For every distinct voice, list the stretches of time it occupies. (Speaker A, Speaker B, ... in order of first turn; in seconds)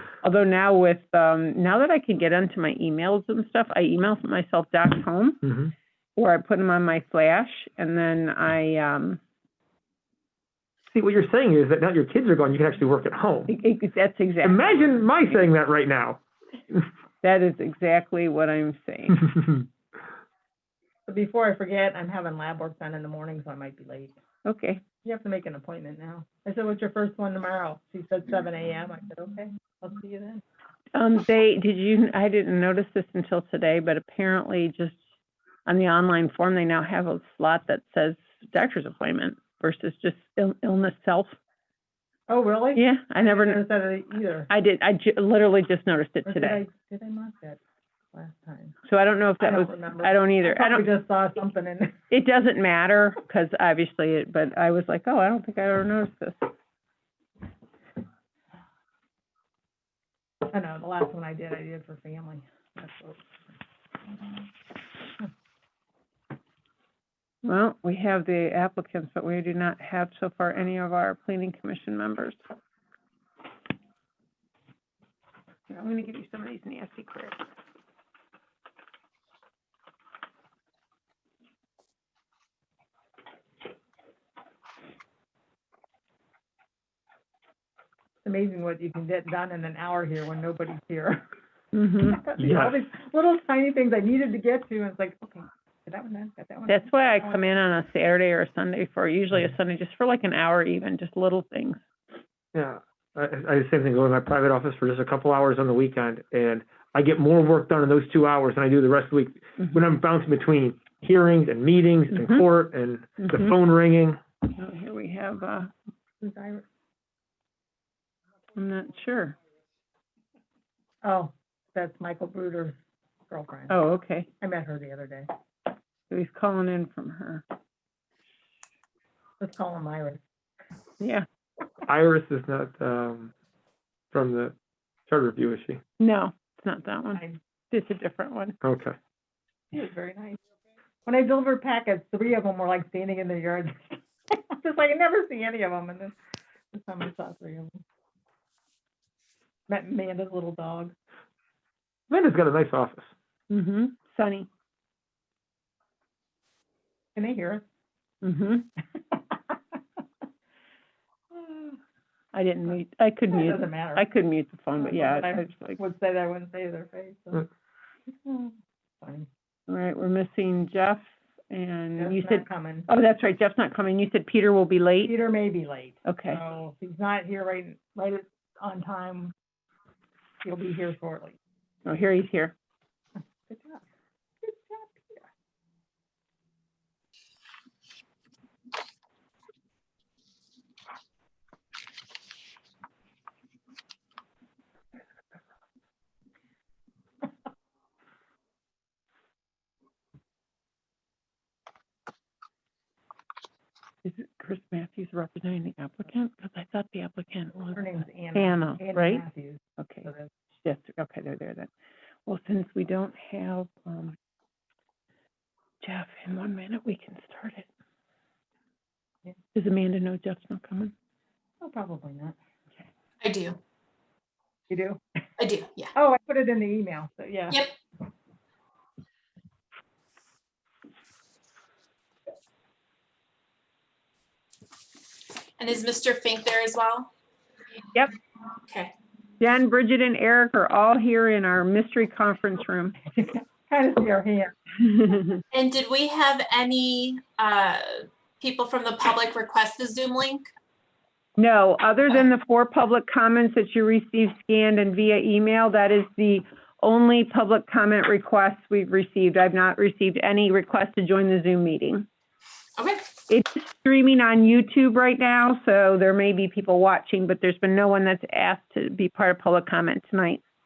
Speaker A: 0.2-5.4, 6.2-9.2, 13.5-15.2, 17.2-19.2, 24.4-24.8, 30.9-35.0, 35.6-41.3, 42.7-43.6, 44.5-46.6, 48.9-50.9, 52.1-56.5, 67.4-72.4, 75.7-77.4, 91.7-92.2, 96.7-101.8, 112.1-112.4, 113.2-113.5, 114.5-115.7, 118.5-119.3, 123.7-124.3, 126.1-127.4, 131.0-131.2, 136.0-138.5, 153.5-154.5, 158.2-158.7, 162.3-165.8, 169.7-175.1, 176.1-176.4, 181.8-182.5, 204.0-207.8, 208.3-209.2, 209.8-210.1, 210.6-211.7, 212.2-214.2, 215.8-217.7, 219.5-220.9, 239.4-243.0, 244.9-245.4, 251.4-262.1, 263.3-270.4
Speaker B: 5.5-5.7, 10.9-13.5, 14.4-16.2, 92.4-92.7, 102.5-114.2, 131.8-133.3, 134.1-134.5, 135.1-135.8, 138.6-138.9, 152.1-153.1
Speaker C: 21.1-24.1, 25.0-30.4, 42.3-44.5, 46.2-47.6, 48.1-48.8, 49.4-52.0, 60.5-63.3, 88.2-91.2, 92.0-97.4, 116.2-116.6, 121.0-122.8, 123.3-123.8, 124.4-125.3, 129.4-130.2, 139.7-140.4, 141.1-146.1, 146.7-147.8, 149.7-150.9, 157.2-157.6, 159.1-159.8, 161.3-161.8, 163.3-164.1, 164.8-167.5, 168.2-169.3, 172.0-172.9, 175.0-179.3, 180.4-181.4, 183.4-183.8, 184.4-185.2, 207.7-210.3, 221.6-222.3, 224.7-225.0, 225.9-227.6, 243.1-244.6
Speaker D: 223.2-223.6, 225.4-225.9, 235.6-237.1, 238.7-238.9, 245.5-250.4, 262.8-263.1